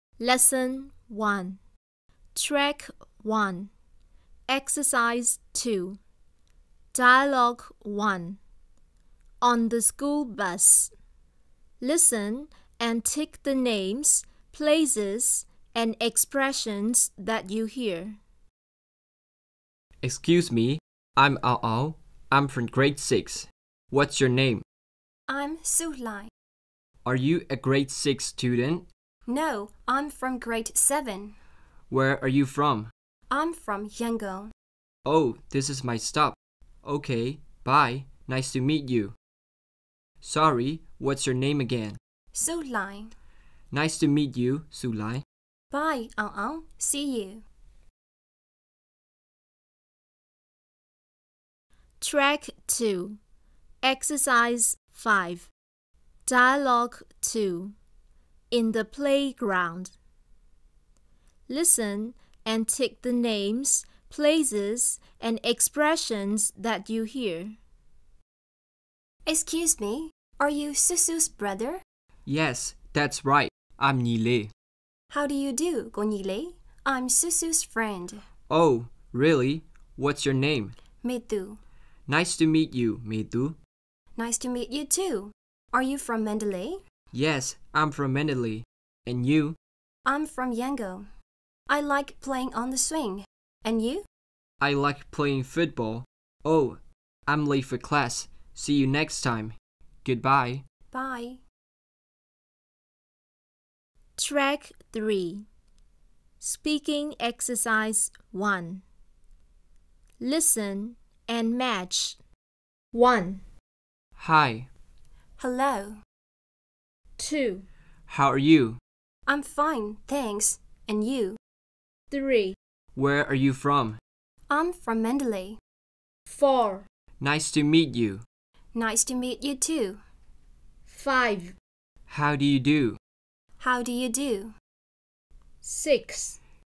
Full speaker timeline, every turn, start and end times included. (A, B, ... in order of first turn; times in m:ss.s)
0:00.2-0:01.6 A
0:02.3-0:03.7 A
0:04.5-0:06.0 A
0:06.9-0:08.4 A
0:09.4-0:10.9 A
0:11.8-0:18.2 A
0:20.0-0:24.6 B
0:25.3-0:26.3 C
0:27.0-0:28.9 B
0:29.3-0:31.3 C
0:31.9-0:32.9 B
0:33.3-0:34.5 C
0:35.0-0:39.1 B
0:40.2-0:42.0 B
0:42.3-0:43.1 C
0:43.7-0:45.2 B
0:45.7-0:47.4 C
0:52.0-0:53.2 A
0:53.8-0:55.5 A
0:56.2-0:57.7 A
0:58.5-0:59.9 A
1:01.5-1:07.6 A
1:09.2-1:11.8 C
1:12.2-1:14.5 B
1:15.1-1:18.2 C
1:18.5-1:20.8 B
1:21.0-1:21.6 C
1:22.1-1:23.6 B
1:24.2-1:26.8 C
1:27.1-1:29.6 B
1:30.0-1:31.1 C
1:31.7-1:34.0 C
1:34.6-1:40.6 B
1:40.9-1:41.4 C
1:44.2-1:45.4 A
1:46.4-1:48.8 A
1:50.2-1:52.2 A
1:52.9-1:53.4 A
1:54.2-1:54.7 B
1:55.4-1:56.0 C
1:57.2-1:57.6 A
1:58.1-1:58.8 B
1:59.3-2:01.4 C
2:02.1-2:02.6 A
2:02.9-2:04.0 B
2:04.5-2:05.6 C
2:06.3-2:06.8 A
2:07.2-2:08.2 B
2:08.7-2:10.0 C
2:10.9-2:11.6 A
2:12.1-2:13.0 B
2:13.6-2:14.5 C
2:15.6-2:16.4 A